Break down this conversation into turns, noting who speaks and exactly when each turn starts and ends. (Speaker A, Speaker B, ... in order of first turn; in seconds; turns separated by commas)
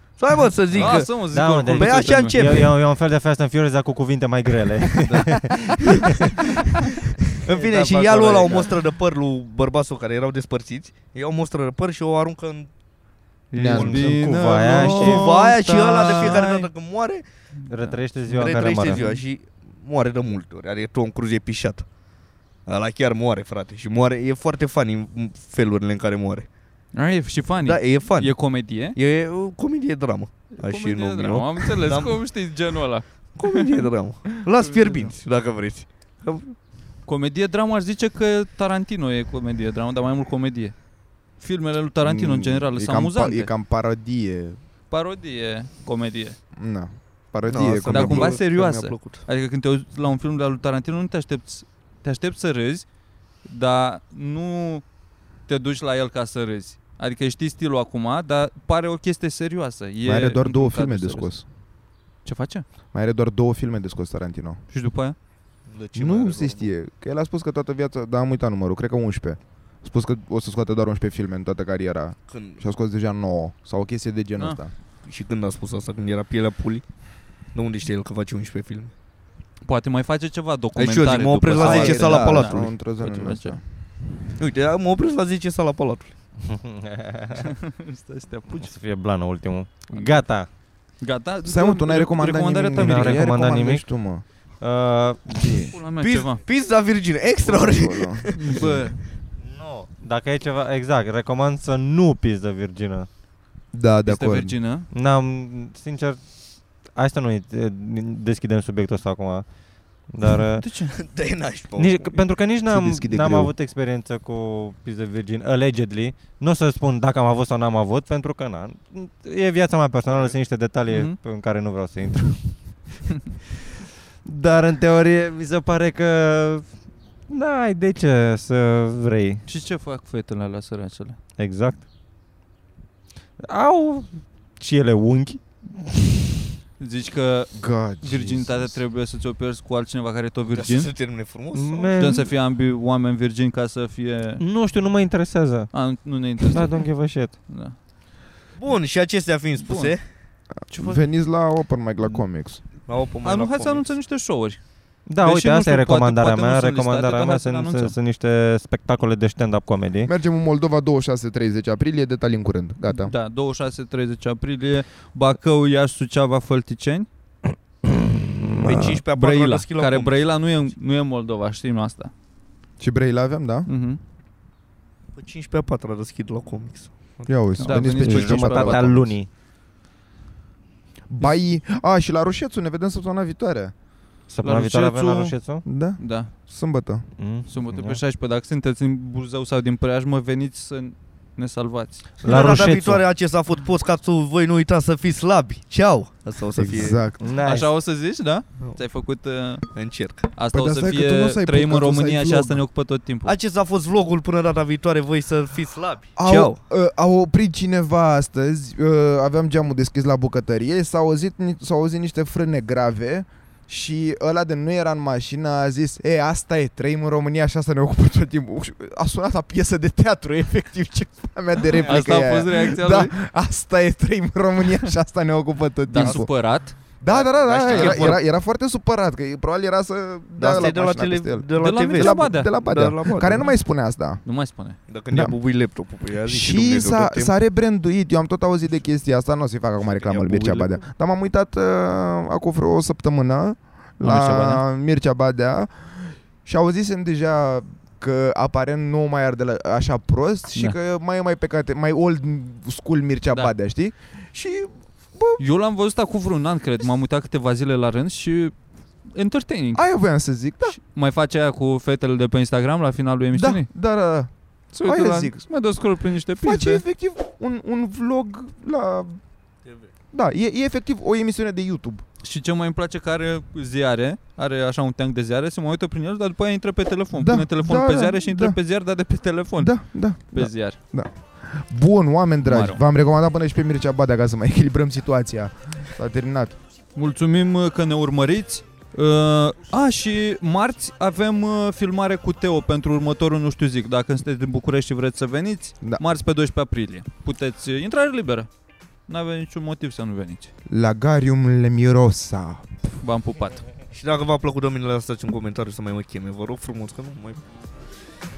Speaker A: 0.2-2.8, Speaker B: 0.7-2.7, Speaker C: 0.8-6.3, Speaker A: 5.0-6.2, Speaker A: 7.3-12.7, Speaker B: 7.5-8.7, Speaker B: 13.5-16.7, Speaker D: 13.5-14.2, Speaker C: 13.7-15.2, Speaker A: 14.7-17.2, Speaker B: 17.6-19.2, Speaker C: 17.7-19.0, Speaker A: 18.3-21.9, Speaker A: 22.6-26.5, Speaker B: 26.9-28.9, Speaker A: 27.6-32.2, Speaker B: 30.5-35.1, Speaker A: 33.3-36.5, Speaker B: 37.0-40.8, Speaker B: 41.4-43.5, Speaker D: 42.0-44.6, Speaker B: 44.9-46.4, Speaker D: 46.5-48.4, Speaker A: 47.5-49.2, Speaker B: 47.9-52.9, Speaker B: 53.4-54.8, Speaker B: 55.5-61.3, Speaker D: 60.0-61.4, Speaker B: 62.2-62.6, Speaker D: 62.9-64.6, Speaker B: 64.7-65.1, Speaker A: 65.7-66.7, Speaker D: 65.9-74.7, Speaker A: 72.3-72.6, Speaker A: 75.0-76.8, Speaker A: 77.5-78.9, Speaker B: 79.6-83.6, Speaker A: 80.8-82.7, Speaker D: 81.5-83.6, Speaker A: 84.3-86.1, Speaker C: 86.5-87.5, Speaker B: 87.4-88.7, Speaker C: 88.6-90.5, Speaker B: 89.9-90.2, Speaker B: 91.0-93.2, Speaker D: 91.4-94.2, Speaker C: 92.8-93.8, Speaker C: 94.6-95.6, Speaker D: 95.3-95.8, Speaker B: 95.7-96.4, Speaker A: 96.0-98.8, Speaker D: 97.4-98.7, Speaker B: 98.3-99.0, Speaker C: 99.4-103.1, Speaker D: 103.7-104.5, Speaker B: 104.0-104.9, Speaker C: 104.9-106.3, Speaker C: 106.9-109.5, Speaker C: 110.1-110.6, Speaker B: 110.6-111.0, Speaker A: 111.0-112.2, Speaker C: 111.8-122.4, Speaker D: 112.7-113.5, Speaker B: 120.9-121.2, Speaker C: 124.2-126.7, Speaker C: 127.3-129.4, Speaker B: 129.4-131.2, Speaker C: 131.4-131.8, Speaker C: 133.4-136.1, Speaker B: 136.8-140.9, Speaker D: 137.6-138.8, Speaker A: 140.5-141.9, Speaker C: 141.5-142.3, Speaker B: 141.9-144.4, Speaker C: 144.4-145.7, Speaker B: 145.7-146.8, Speaker C: 146.5-147.3, Speaker B: 147.5-147.8, Speaker A: 148.6-150.0, Speaker B: 149.6-149.9, Speaker D: 150.6-152.6, Speaker B: 150.7-151.1, Speaker A: 152.9-153.9, Speaker B: 153.2-154.6, Speaker C: 155.1-160.1, Speaker B: 155.2-157.9, Speaker D: 160.0-163.1, Speaker B: 162.9-167.1, Speaker C: 168.2-168.9, Speaker A: 168.6-170.1, Speaker B: 169.1-172.1, Speaker D: 172.8-173.7, Speaker B: 173.7-174.0, Speaker A: 175.2-177.3, Speaker D: 177.3-179.2, Speaker B: 177.6-178.9, Speaker C: 177.6-179.3, Speaker D: 181.1-183.7, Speaker C: 184.3-185.6, Speaker B: 184.4-185.3, Speaker D: 185.6-187.1, Speaker B: 186.0-186.3, Speaker C: 187.2-188.0, Speaker B: 187.5-192.2, Speaker C: 192.2-193.0, Speaker A: 192.2-197.0, Speaker D: 196.6-197.2, Speaker C: 197.2-197.7, Speaker B: 197.4-199.7, Speaker A: 199.7-200.3, Speaker B: 200.3-203.3, Speaker D: 200.5-202.6, Speaker A: 203.2-206.6, Speaker D: 206.2-226.3, Speaker B: 221.8-223.1, Speaker B: 225.9-226.7, Speaker A: 226.0-226.2, Speaker D: 227.0-234.2, Speaker A: 227.1-228.2, Speaker B: 227.7-228.2, Speaker A: 230.4-233.5, Speaker B: 231.6-232.5, Speaker B: 234.2-234.8, Speaker A: 234.9-237.3, Speaker D: 235.1-235.3, Speaker D: 236.2-255.4, Speaker A: 239.9-240.7, Speaker B: 244.0-244.6, Speaker B: 255.4-259.8, Speaker D: 259.7-260.8, Speaker B: 260.7-263.7, Speaker D: 263.3-265.4, Speaker B: 264.8-266.8, Speaker D: 266.4-269.2, Speaker A: 269.6-269.9, Speaker D: 270.1-272.0, Speaker B: 272.2-280.8, Speaker D: 277.1-278.6, Speaker D: 279.6-286.6, Speaker B: 282.4-282.8, Speaker B: 286.9-298.5, Speaker B: 299.1-300.5, Speaker D: 300.7-302.7, Speaker B: 303.0-303.6, Speaker A: 303.9-307.4